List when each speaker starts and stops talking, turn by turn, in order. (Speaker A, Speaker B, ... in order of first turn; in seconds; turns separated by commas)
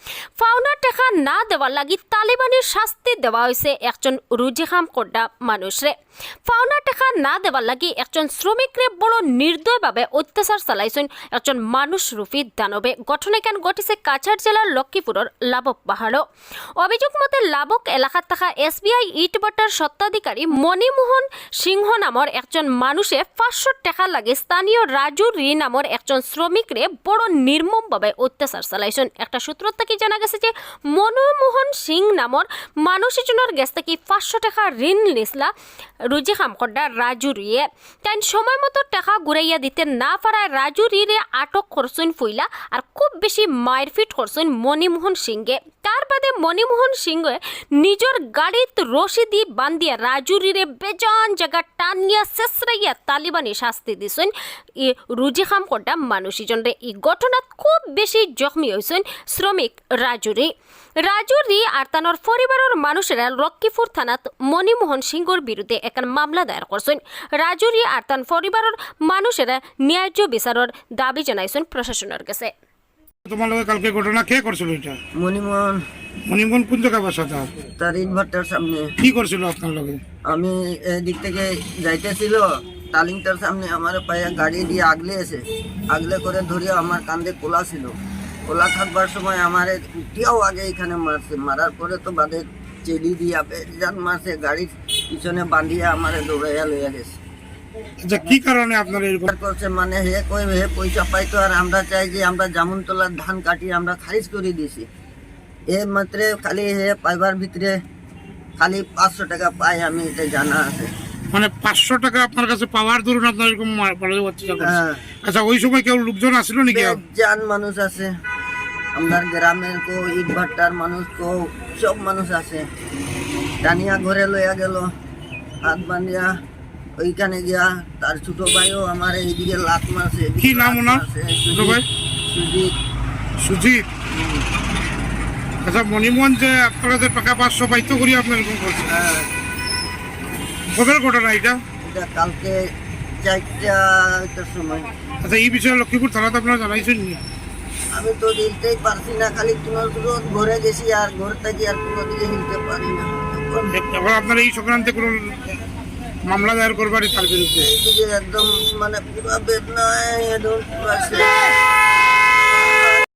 Speaker A: 0.4-5.9, Speaker A: 6.5-16.2, Speaker A: 16.8-35.5, Speaker A: 36.1-72.5, Speaker B: 73.2-75.0, Speaker C: 75.1-75.8, Speaker B: 76.3-77.5, Speaker C: 77.8-78.9, Speaker B: 79.0-80.0, Speaker C: 80.2-87.9, Speaker C: 88.5-97.2, Speaker B: 98.0-99.3, Speaker C: 99.2-104.8, Speaker C: 105.7-107.8, Speaker C: 108.6-110.9, Speaker B: 111.3-117.0, Speaker C: 114.6-115.0, Speaker C: 116.7-118.1, Speaker C: 118.9-122.7, Speaker C: 123.6-124.9, Speaker C: 125.6-126.3, Speaker C: 127.0-132.7, Speaker B: 130.4-131.8, Speaker B: 133.4-133.9, Speaker C: 134.1-134.4, Speaker B: 135.6-138.9, Speaker C: 138.9-139.3, Speaker B: 140.7-141.6, Speaker C: 141.8-142.6, Speaker C: 143.2-144.9, Speaker B: 145.2-147.2, Speaker C: 147.9-153.8, Speaker B: 153.7-155.4, Speaker B: 156.2-157.7, Speaker C: 157.6-161.4